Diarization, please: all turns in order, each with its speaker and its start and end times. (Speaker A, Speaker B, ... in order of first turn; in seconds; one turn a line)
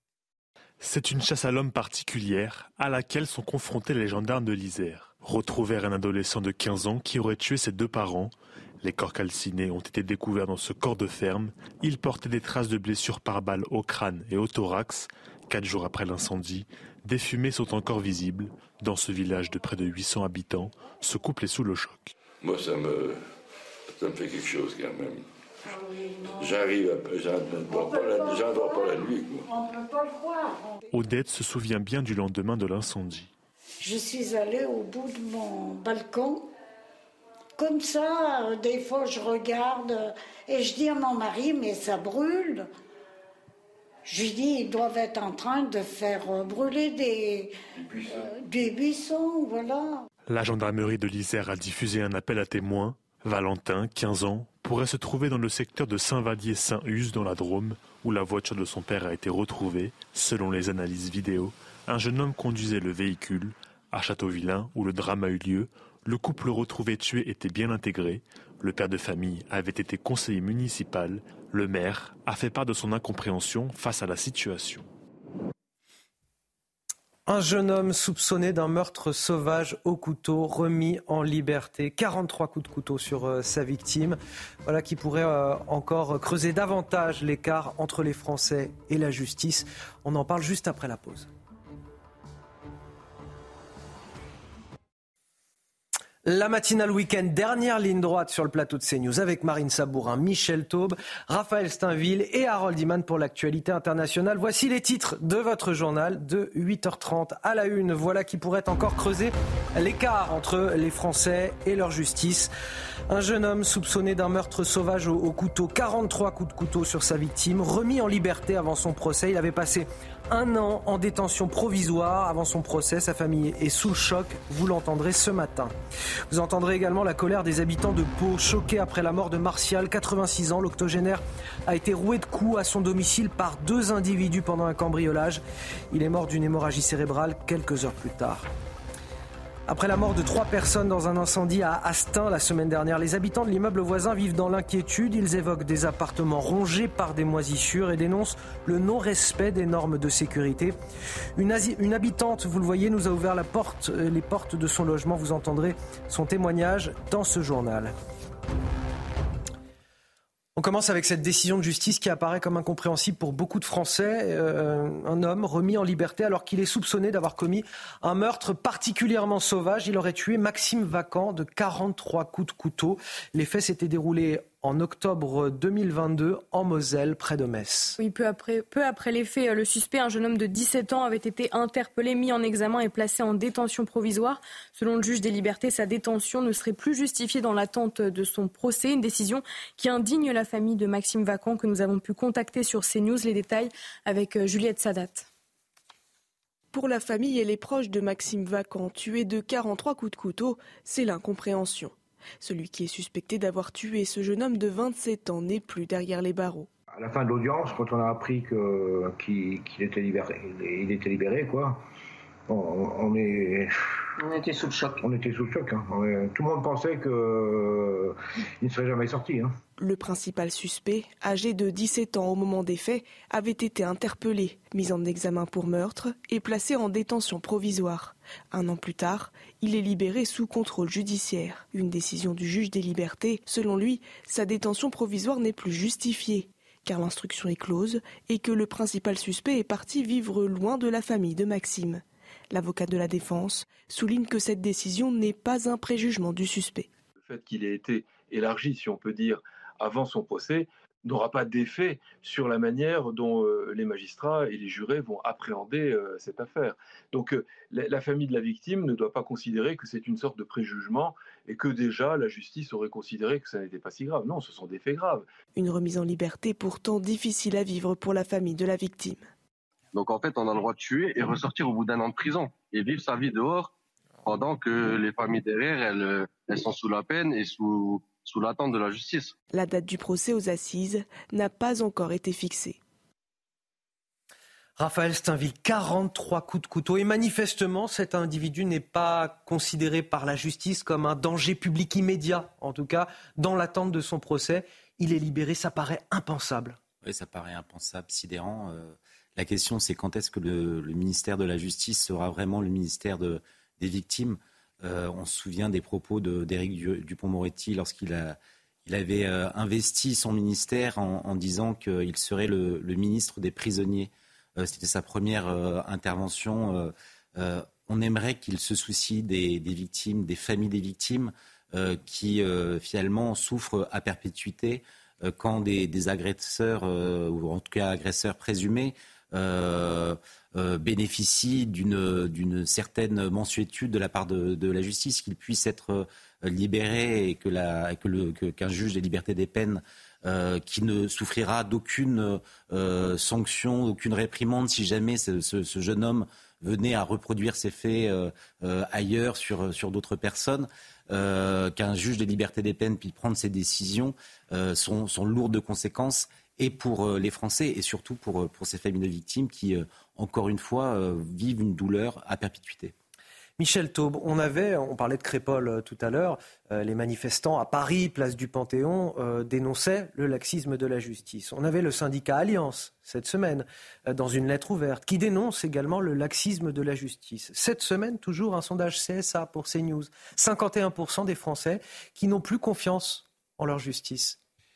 Speaker A: 0.8-22.1
Speaker B: 22.4-23.2
Speaker B: 23.9-25.2
Speaker C: 25.6-26.6
Speaker B: 26.4-29.5
Speaker C: 27.6-30.8
Speaker A: 30.9-33.3
Speaker C: 33.8-36.5
Speaker C: 37.6-42.7
Speaker C: 44.0-50.0
Speaker A: 50.3-74.9
Speaker D: 77.3-91.3
Speaker D: 96.2-112.5
Speaker D: 113.1-125.7
Speaker D: 126.3-138.5
Speaker D: 139.7-150.8
Speaker D: 151.4-157.9
Speaker D: 160.6-178.0
Speaker E: 178.0-195.3
Speaker F: 196.7-206.7
Speaker G: 207.0-211.8
Speaker G: 212.5-213.7
Speaker G: 214.9-219.6
Speaker F: 219.8-246.9
Speaker H: 247.2-265.3
Speaker F: 265.6-269.3
Speaker I: 269.9-273.7
Speaker I: 274.3-279.3
Speaker F: 279.5-282.8
Speaker D: 284.8-296.8
Speaker J: 297.0-362.9
Speaker D: 363.6-384.4